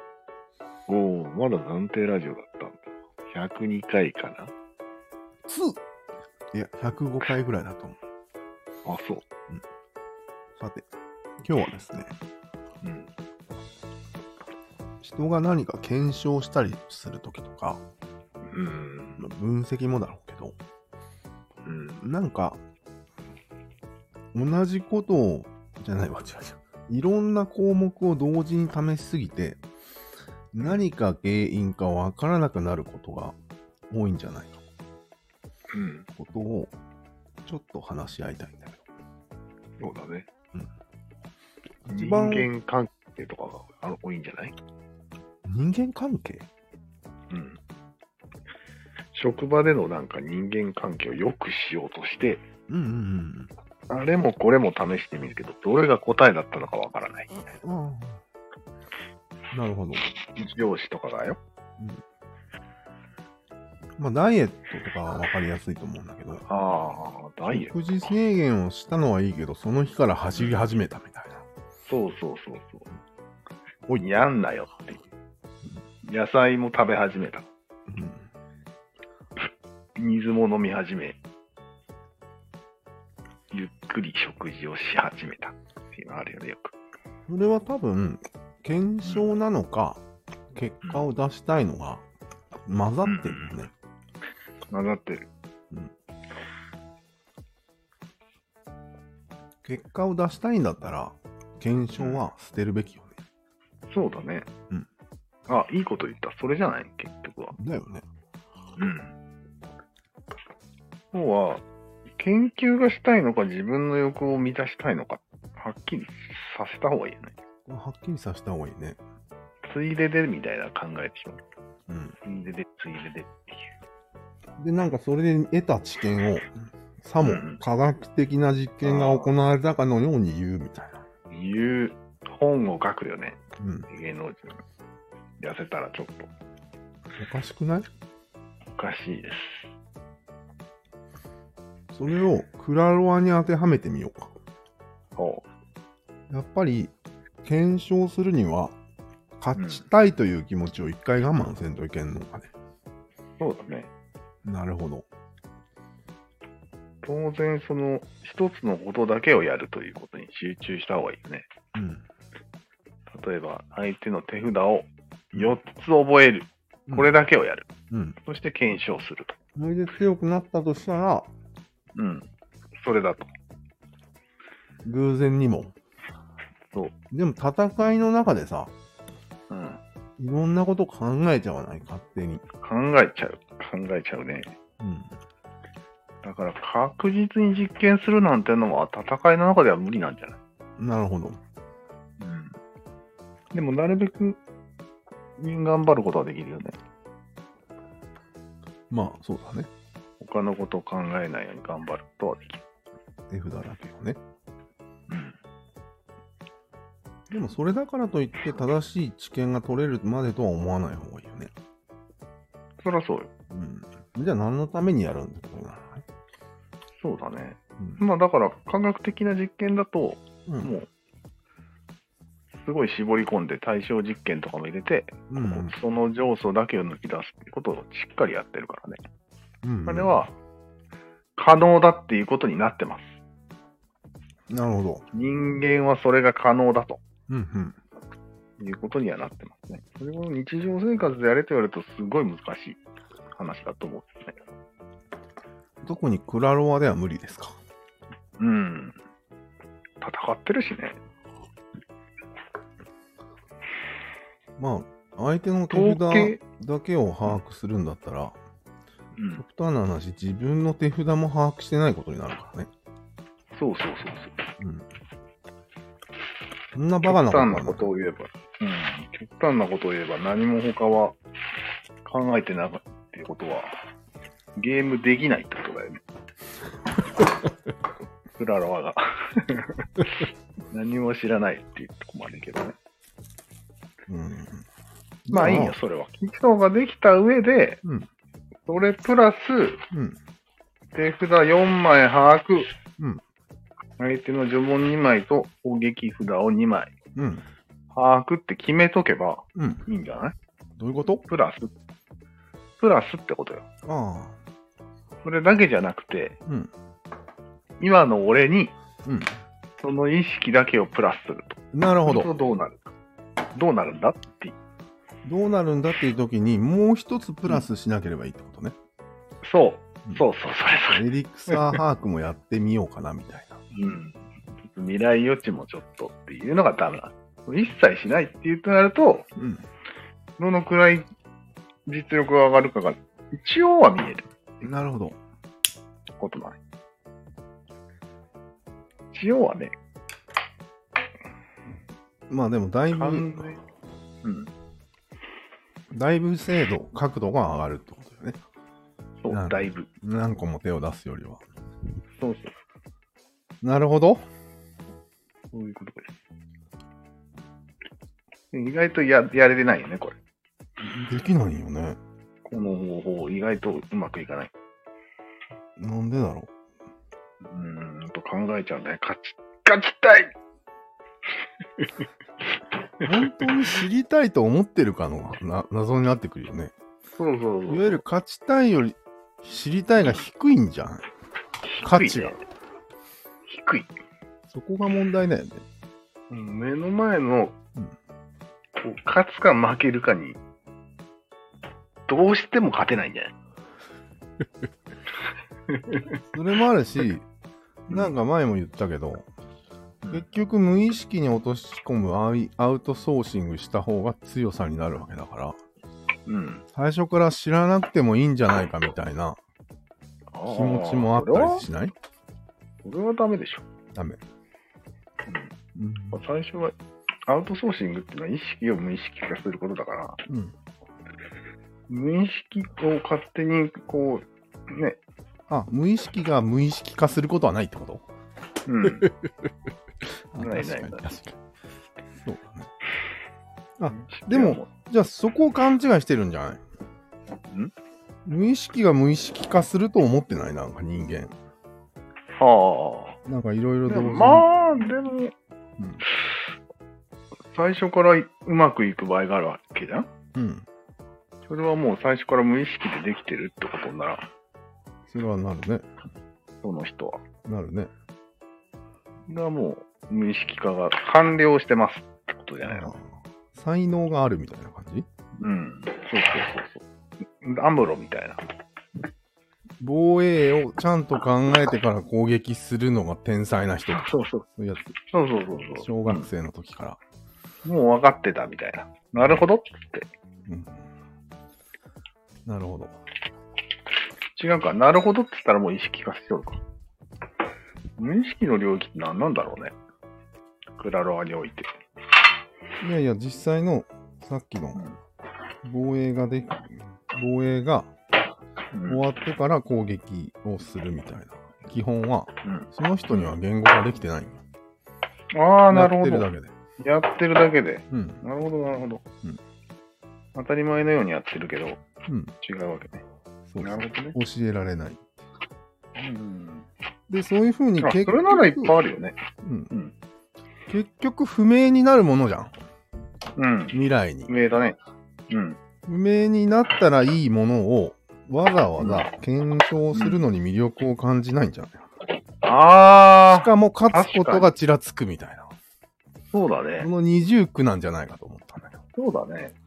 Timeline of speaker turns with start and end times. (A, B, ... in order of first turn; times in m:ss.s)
0:00.9-0:04.5 A
0:05.5-0:05.8 B
0:06.5-0:08.0 B
0:08.8-0:09.2 A
0:10.6-0:10.9 B
0:11.4-0:12.1 B
0:12.8-0:13.1 A
0:15.0-0:17.8 B
0:18.5-0:19.2 A
0:19.2-0:20.6 B
0:21.6-0:22.0 A
0:22.0-0:22.6 B
0:24.3-0:29.6 B
0:30.5-0:33.4 B
0:33.9-0:34.6 B
0:35.7-0:36.1 A
0:36.2-0:36.7 B
0:37.4-0:38.8 B
0:39.8-0:40.3 A
0:41.8-0:42.5 B
0:41.9-0:44.5 A
0:45.4-0:46.5 B
0:47.3-0:47.6 A
0:49.1-0:52.4 A
0:52.7-0:53.5 B
0:53.9-0:57.4 A
0:57.6-0:58.2 B
0:59.5-1:00.1 B
1:00.4-1:01.4 A
1:04.0-1:06.4 B
1:06.5-1:07.7 A
1:07.5-1:11.4 B
1:10.4-1:10.7 A
1:11.9-1:12.9 A
1:14.0-1:15.0 A
1:16.1-1:17.5 A
1:17.9-1:18.3 B
1:20.0-1:21.2 A
1:23.5-1:26.7 A
1:27.3-1:32.0 B
1:29.0-1:29.3 A
1:30.8-1:31.1 A
1:32.7-1:33.7 B
1:33.0-1:33.6 A
1:34.7-1:35.3 A
1:39.6-1:43.1 B
1:42.0-1:42.3 A
1:43.9-1:44.5 A
1:45.5-1:47.6 A
1:47.6-1:48.0 B
1:48.8-1:49.1 A
1:51.1-1:51.6 A
1:52.2-1:57.3 A
1:57.7-1:59.0 B
1:59.7-2:01.4 A
2:01.9-2:02.2 B
2:02.2-2:03.6 A
2:04.6-2:11.0 B
2:07.2-2:07.6 A
2:08.8-2:09.3 A
2:11.3-2:14.6 A
2:13.6-2:13.9 B
2:15.4-2:16.3 A
2:17.2-2:17.9 B
2:18.8-2:19.7 A
2:21.9-2:24.3 B
2:25.2-2:25.4 A
2:26.3-2:26.9 B
2:27.4-2:28.8 B
2:29.4-2:32.5 B
2:29.6-2:29.9 A
2:33.4-2:33.9 A
2:34.4-2:35.1 B
2:37.0-2:41.5 A
2:41.7-2:42.0 B
2:43.1-2:47.7 A
2:47.9-2:48.2 B
2:48.2-2:49.4 A
2:49.6-2:51.3 B
2:52.0-2:52.3 A
2:52.8-2:53.3 A
2:54.8-2:55.8 B
2:57.1-2:58.7 B
2:59.5-2:59.8 A
3:00.2-3:02.4 B
3:02.6-3:04.5 A
3:04.8-3:05.2 B
3:06.2-3:10.4 A
3:10.8-3:11.4 B
3:12.2-3:12.6 A
3:13.5-3:14.4 A
3:15.4-3:16.8 A
3:18.9-3:19.7 B
3:20.2-3:22.6 A
3:23.3-3:24.2 B
3:25.1-3:25.4 A
3:27.3-3:31.5 B
3:32.8-3:33.3 A
3:33.5-3:36.0 B
3:37.0-3:40.9 A
3:40.5-3:40.7 B
3:42.6-3:49.0 A
3:45.3-3:45.8 B
3:49.6-3:50.2 B
3:49.9-3:50.3 A
3:51.4-3:53.2 A
3:54.5-3:55.0 B
3:55.1-3:57.0 A
3:57.3-3:57.8 B
3:58.6-4:02.8 A
4:03.4-4:04.4 A
4:05.8-4:07.6 B
4:08.4-4:09.0 A
4:10.0-4:11.0 A
4:14.6-4:18.4 B
4:15.7-4:16.4 A
4:19.2-4:19.4 A
4:19.4-4:22.7 B
4:23.6-4:24.4 A
4:24.6-4:24.9 B
4:26.8-4:27.8 B
4:27.1-4:31.2 A
4:32.0-4:33.8 A
4:34.6-4:36.0 A
4:38.4-4:39.9 A
4:40.7-4:42.8 A
4:44.1-4:44.7 B
4:45.3-4:45.8 B
4:45.3-4:47.8 A
4:47.8-4:48.1 B
4:48.7-4:49.8 A
4:49.9-4:50.2 B
4:51.0-4:52.7 A
4:54.0-4:56.9 A
4:57.2-4:57.4 B
4:57.9-5:00.4 A
4:59.6-4:59.8 B
5:00.8-5:01.2 B
5:01.3-5:01.7 A
5:02.8-5:03.6 A
5:03.8-5:04.4 B
5:05.2-5:06.4 A
5:06.5-5:06.7 B
5:07.8-5:08.8 A
5:09.0-5:09.4 B
5:09.8-5:12.9 A
5:11.7-5:12.3 B
5:13.6-5:14.6 A
5:15.2-5:18.8 B
5:19.4-5:21.8 A
5:20.9-5:23.6 B
5:23.7-5:29.3 A
5:29.4-5:29.6 B
5:30.4-5:31.1 A
5:31.9-5:34.3 A
5:34.6-5:35.2 B
5:36.2-5:36.6 A
5:39.1-5:39.7 A
5:42.3-5:43.4 B
5:42.9-5:43.6 A
5:44.2-5:44.5 A
5:45.9-5:48.4 B
5:49.2-5:49.9 A
5:49.3-5:51.4 B
5:52.2-5:52.6 A
5:53.6-5:54.2 B
5:55.5-5:56.2 A
5:58.5-6:00.2 A
6:00.8-6:02.0 B
6:02.4-6:04.5 A
6:05.8-6:06.5 B
6:07.4-6:10.3 A
6:13.0-6:13.6 A
6:13.0-6:16.7 B
6:17.2-6:18.0 A
6:17.7-6:21.1 B
6:21.6-6:22.4 A
6:21.8-6:22.4 B
6:23.5-6:23.9 A
6:24.5-6:25.6 B
6:26.3-6:27.6 A
6:28.8-6:30.4 A
6:32.1-6:33.3 A
6:35.7-6:36.2 A
6:36.3-6:37.2 B
6:37.9-6:38.1 A
6:37.9-6:39.3 B
6:40.1-6:45.6 B
6:46.3-6:46.6 A
6:46.7-6:49.4 B
6:50.3-6:51.6 A
6:50.5-6:51.9 B
6:52.8-6:53.6 A
6:54.0-6:54.2 B
6:55.8-6:56.2 B
6:56.1-6:56.7 A
6:57.3-7:00.2 A
7:00.3-7:00.5 B
7:01.9-7:05.0 A
7:05.5-7:08.0 B
7:08.7-7:09.1 A
7:09.0-7:09.3 B
7:10.3-7:11.4 B
7:10.4-7:11.0 A
7:12.2-7:12.7 B
7:13.8-7:16.6 B
7:13.9-7:14.7 A
7:18.3-7:21.3 B
7:22.4-7:23.2 A
7:23.3-7:24.5 B
7:23.9-7:25.3 A
7:25.8-7:26.0 B
7:27.5-7:30.1 A
7:30.4-7:30.7 B
7:31.5-7:34.3 A
7:35.1-7:35.9 B
7:36.6-7:37.2 A
7:37.4-7:37.9 B
7:39.3-7:43.0 A
7:42.7-7:45.1 B
7:45.4-7:46.8 A
7:47.4-7:48.4 A
7:49.8-7:55.0 B
7:54.0-7:54.4 A
7:55.1-7:56.3 A
7:55.8-7:57.0 B
7:57.6-8:00.1 A
8:00.5-8:00.8 B
8:02.5-8:03.0 B
8:04.4-8:06.6 A
8:08.0-8:09.7 A
8:10.8-8:11.7 A
8:12.8-8:14.8 B
8:15.6-8:17.9 B
8:18.7-8:19.0 A
8:18.9-8:24.4 B
8:22.4-8:22.7 A
8:25.3-8:29.0 A
8:25.7-8:26.5 B
8:27.9-8:28.2 B
8:30.4-8:31.8 A
8:32.1-8:32.3 B
8:32.4-8:33.0 A
8:33.5-8:35.0 B
8:33.6-8:34.2 A
8:36.0-8:36.7 A
8:37.1-8:38.8 B
8:37.8-8:39.2 A
8:39.4-8:39.7 B
8:40.7-8:42.5 B
8:43.4-8:43.8 A
8:43.7-8:44.3 B
8:44.3-8:44.8 A
8:45.3-8:45.6 A
8:45.9-8:51.8 B
8:48.8-8:49.1 A
8:49.9-8:50.2 A
8:52.4-8:54.5 A
8:53.3-8:55.5 B
8:56.3-8:56.9 A
8:56.8-8:58.8 B
8:59.0-8:59.5 A